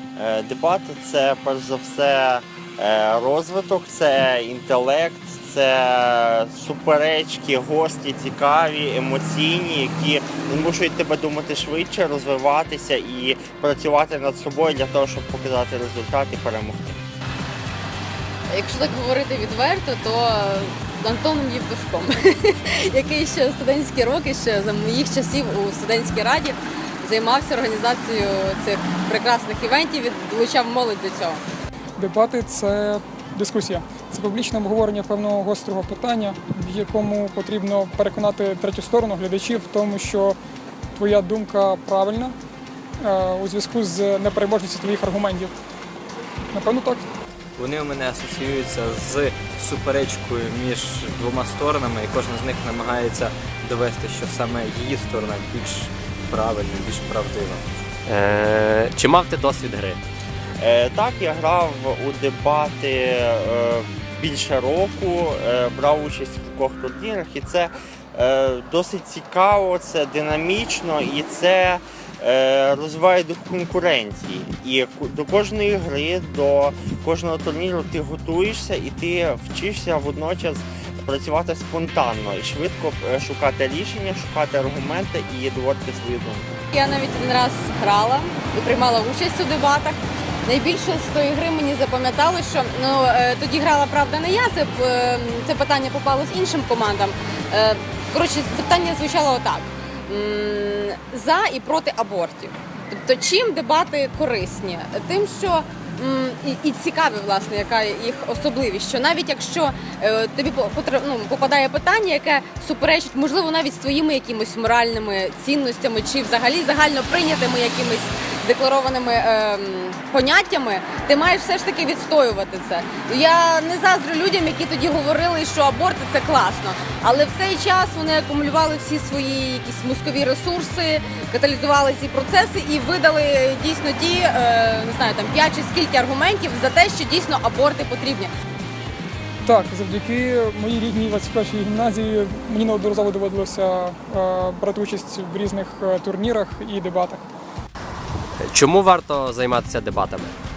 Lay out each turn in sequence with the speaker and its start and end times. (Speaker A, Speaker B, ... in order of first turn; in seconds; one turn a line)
Speaker A: 0.2-17.0
Speaker B: 18.5-31.4
Speaker C: 32.0-40.4
Speaker C: 41.0-42.4
Speaker C: 43.0-45.5
Speaker C: 46.5-47.1
Speaker D: 47.6-57.6
Speaker E: 58.1-60.0
Speaker A: 60.6-86.6
Speaker B: 86.7-138.3
Speaker C: 139.4-147.2
Speaker E: 148.4-150.3